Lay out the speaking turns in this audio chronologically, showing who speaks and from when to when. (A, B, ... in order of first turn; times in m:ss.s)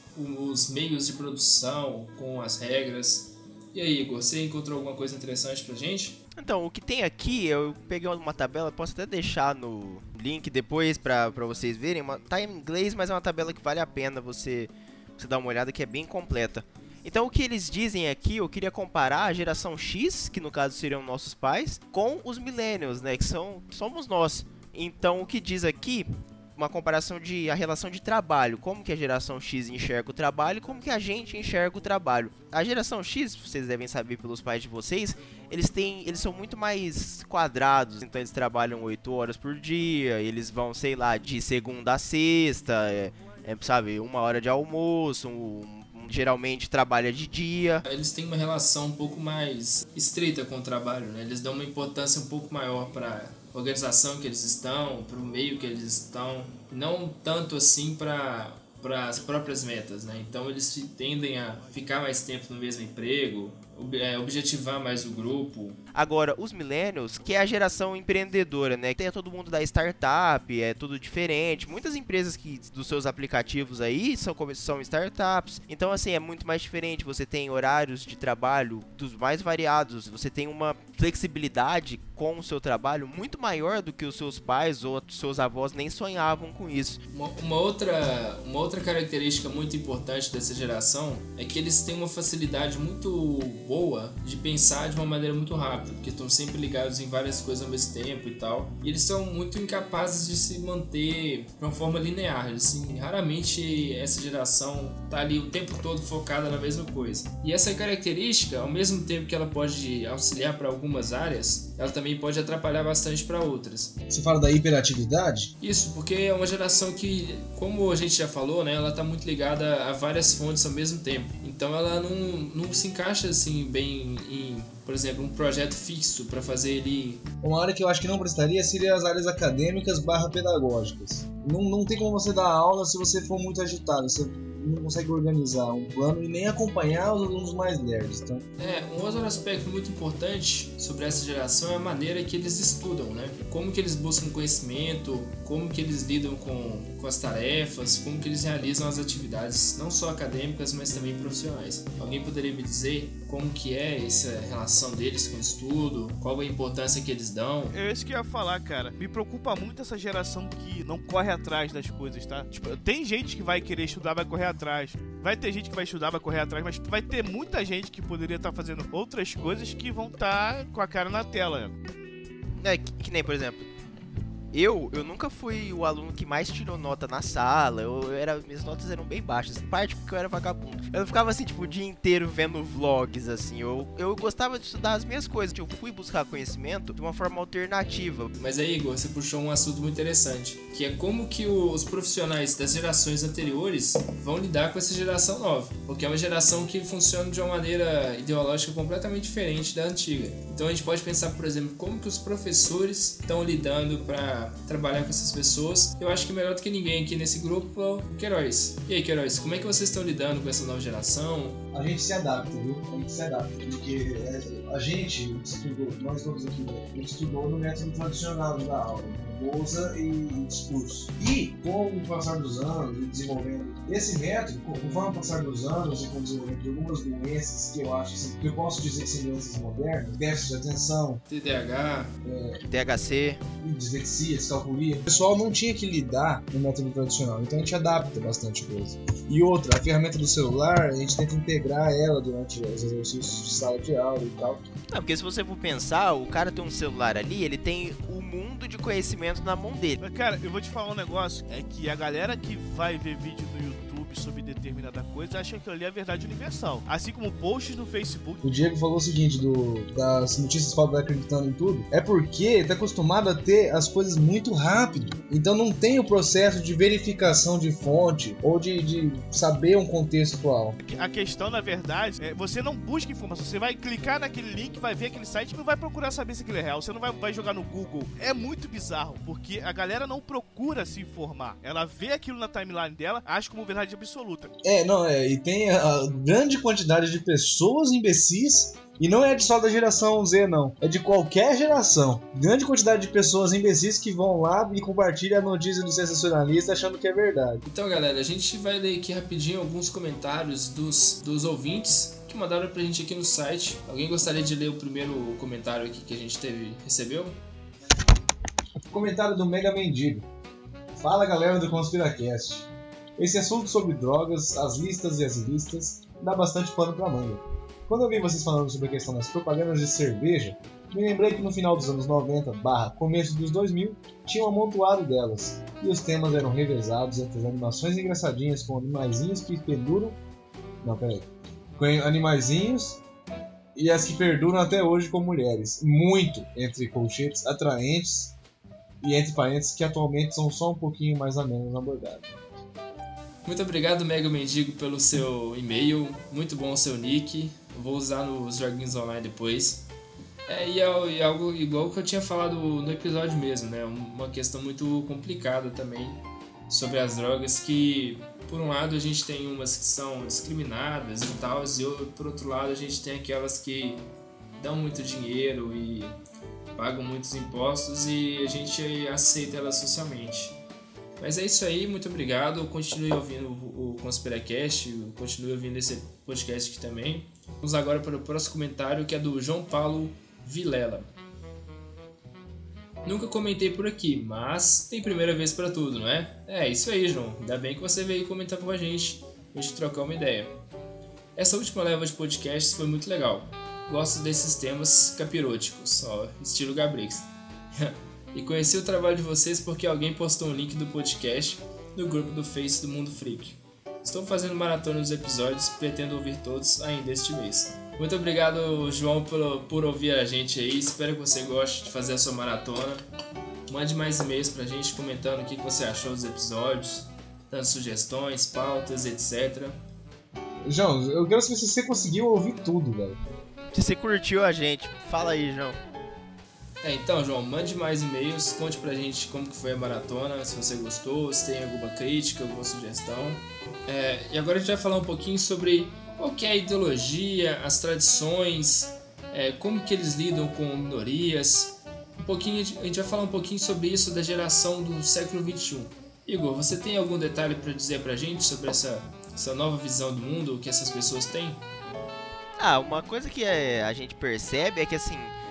0:00.2-0:06.2 A
0:06.4-0:47.8 B
0:47.8-1:05.8 A
1:05.9-1:27.0 B
1:27.1-1:53.9 A
1:54.1-1:55.5 C
1:55.6-2:07.2 A
2:07.4-2:18.4 C
2:18.6-2:37.8 A
2:37.7-2:51.8 D
2:52.6-2:53.7 B
2:54.5-3:08.3 B
3:08.4-3:31.6 A
3:31.7-3:51.2 C
3:51.3-3:52.1 A
3:52.2-3:52.6 C
3:52.6-3:53.4 B
3:53.6-4:04.6 C
4:04.9-4:10.0 B
4:10.0-4:18.4 D
4:18.4-4:30.8 C
4:30.8-4:44.5 D
4:44.6-4:57.6 C
4:57.6-5:07.4 A
5:08.9-5:10.3 C
5:11.0-5:30.2 C
5:30.8-5:33.0 C
5:33.8-5:38.4 C
5:39.0-5:42.3 C
5:43.4-5:49.8 A
5:50.5-6:06.2 A
6:06.8-6:10.6 A
6:11.2-6:21.1 A
6:23.0-6:30.5 A
6:31.4-6:53.0 A
6:53.7-6:59.8 A
7:00.7-7:03.2 C
7:03.7-7:05.8 B
7:06.8-7:31.6 A
7:32.6-7:35.3 B